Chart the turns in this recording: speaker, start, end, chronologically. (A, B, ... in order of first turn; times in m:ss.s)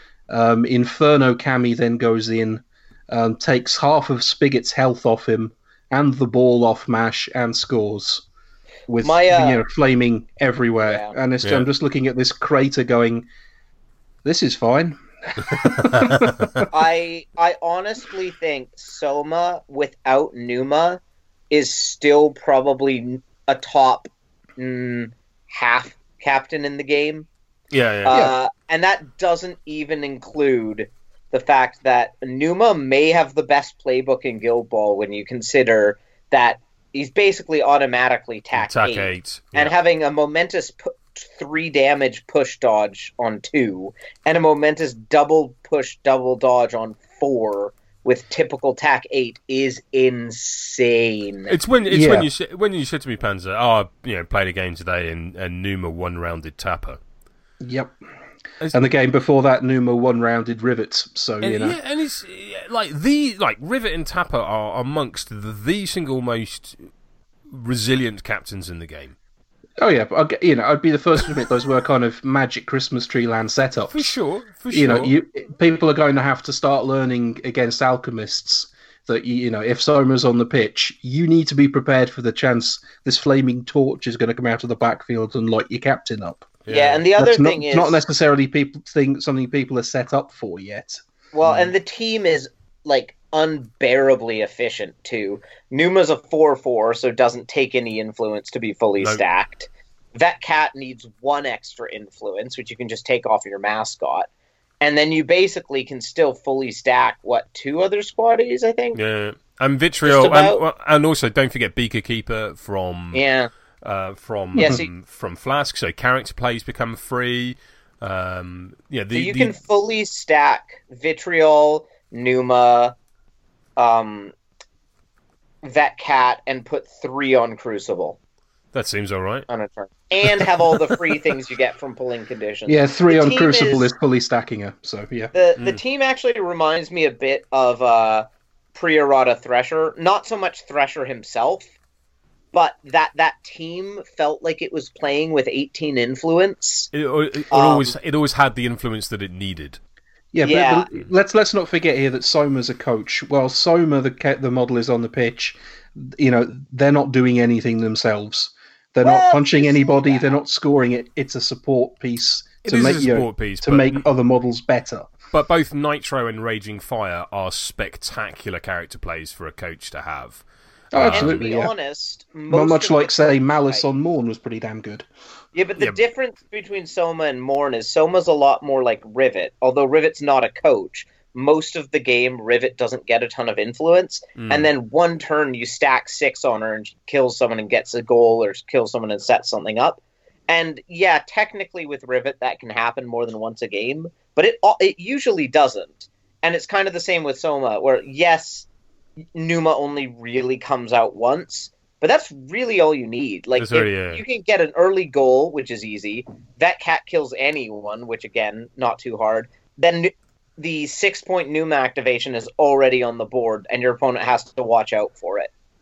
0:00.3-0:08.2 A
0:08.9-0:13.3 A
0:09.0-0:09.6 B
0:10.8-0:11.2 B
0:14.2-0:16.7 A
0:15.9-0:16.4 C
0:16.7-0:21.0 B
0:21.5-0:27.3 B
0:27.7-0:28.2 C
0:28.1-0:51.5 B
0:38.5-0:39.8 C
0:51.5-0:57.0 C
0:51.9-0:52.3 A
0:57.6-0:58.0 A
0:58.7-1:01.8 A
1:01.4-1:06.9 C
1:07.5-1:09.2 C
1:09.8-1:14.1 A
1:13.9-1:15.1 C
1:14.7-1:26.6 A
1:26.6-1:27.0 C
1:26.7-1:28.0 B
1:27.2-1:31.0 A
1:31.3-1:44.3 B
1:31.4-1:31.7 C
1:44.8-1:49.0 B
1:49.0-1:53.2 C
1:50.0-1:50.6 B
1:53.1-1:53.5 B
1:53.8-1:59.5 C
1:54.6-1:54.8 A
1:54.6-1:54.9 B
1:59.1-2:03.0 B
2:03.8-2:04.3 B
2:05.6-2:08.2 B
2:08.7-2:09.5 C
2:09.5-2:13.9 B
2:12.7-2:15.3 A
2:15.3-2:21.7 B
2:22.5-2:26.9 B
2:26.9-2:29.8 C
2:27.5-2:27.9 B
2:30.3-2:45.1 A
2:30.4-2:30.9 B
2:39.0-2:40.4 B
2:42.6-2:44.1 C
2:45.3-2:51.4 C
2:50.9-2:51.7 A
2:51.0-2:53.8 B
2:52.5-2:55.1 A
2:55.5-3:18.6 B
3:04.4-3:04.7 C
3:19.4-3:35.5 B
3:23.6-3:24.2 C